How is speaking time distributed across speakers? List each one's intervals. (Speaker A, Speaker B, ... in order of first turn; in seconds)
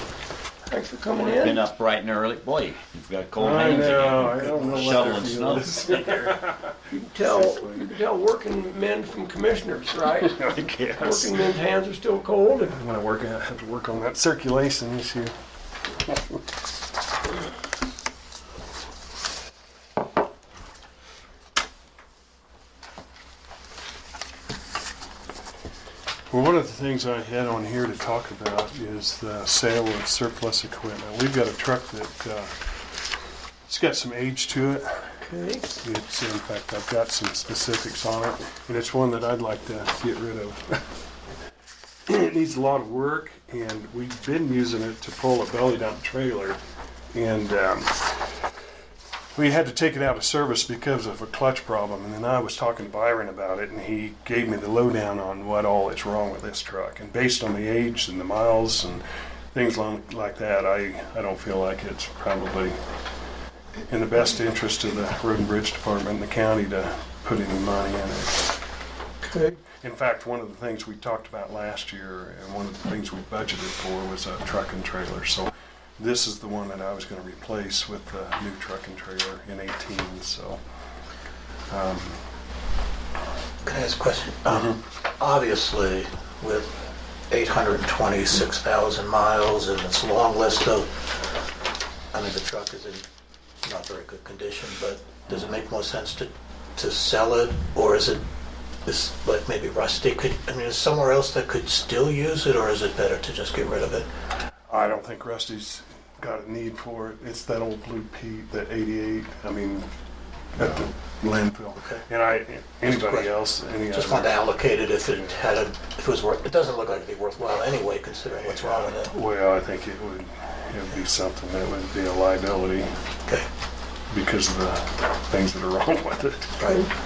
Speaker A: 0.7-1.6, 6.9-12.8, 35.2-35.6, 69.2-69.6
Speaker B: 1.1-6.4, 10.6-10.8
Speaker C: 3.4-7.9, 10.4-11.4, 12.7-15.3, 26.3-32.5, 33.7-35.1, 35.8-40.8, 42.0-46.6, 47.1-48.1, 49.3-59.0, 59.5-62.7, 63.9-68.4, 69.7-80.6, 81.7-82.2, 104.7-109.9, 110.5-114.4, 115.1-115.5, 118.6-123.0, 124.1-126.6
Speaker D: 83.6-86.8, 87.3-91.0, 92.1-93.0, 93.6-98.3, 98.8-104.1, 111.8-112.0, 112.9-113.3, 113.9-119.1, 126.6-126.9